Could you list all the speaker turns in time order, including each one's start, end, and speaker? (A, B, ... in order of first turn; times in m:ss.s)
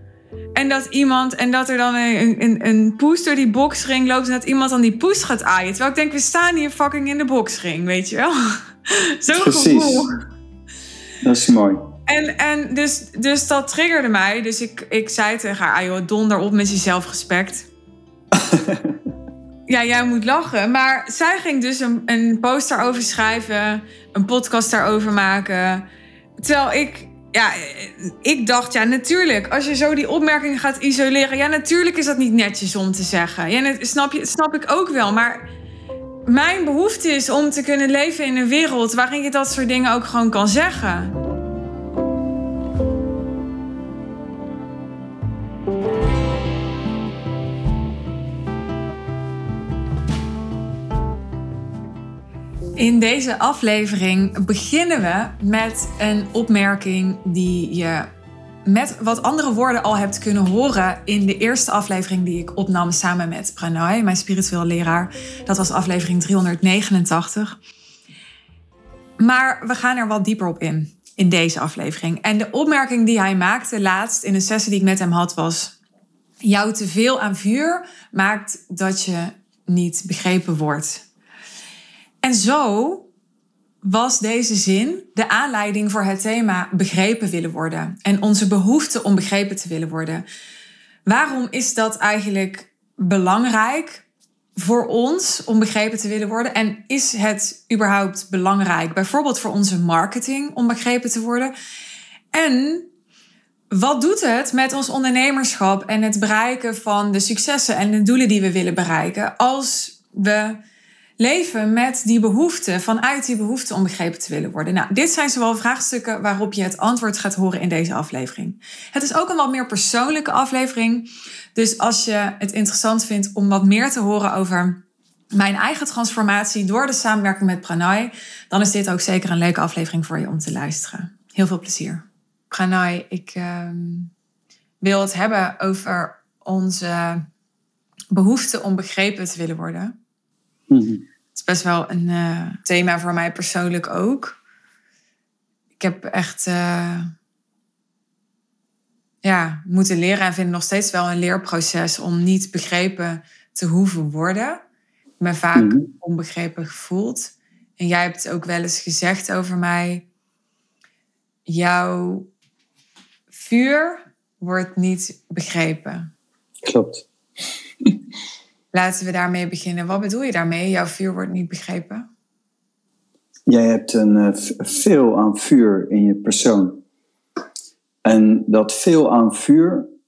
0:00.5-0:10.1 A
0:09.3-0:10.0 B
0:11.2-0:11.9 B
0:12.1-0:17.7 A
0:18.3-0:19.0 B
0:19.7-0:25.8 A
0:26.4-0:35.5 A
0:36.2-0:41.1 A
0:52.8-0:58.1 A
0:58.6-1:07.6 A
1:09.2-1:15.8 A
1:16.4-1:21.0 A
1:22.2-1:23.1 A
1:23.8-1:30.2 A
1:31.0-1:34.0 A
1:34.6-1:41.5 A
1:42.3-1:42.9 A
1:43.7-1:50.6 A
1:51.2-2:04.8 A
2:05.3-2:14.1 A
2:14.8-2:17.2 A
2:18.1-2:19.9 A
2:20.7-2:21.0 B
2:21.3-2:24.4 A
2:25.8-2:27.1 A
2:29.2-2:34.6 A
2:35.2-2:40.0 A
2:35.6-2:35.9 B
2:41.4-2:42.3 A
2:43.3-2:46.1 A
2:46.6-2:47.0 B
2:48.7-2:52.0 A
2:53.5-2:56.8 B
2:58.0-2:59.9 B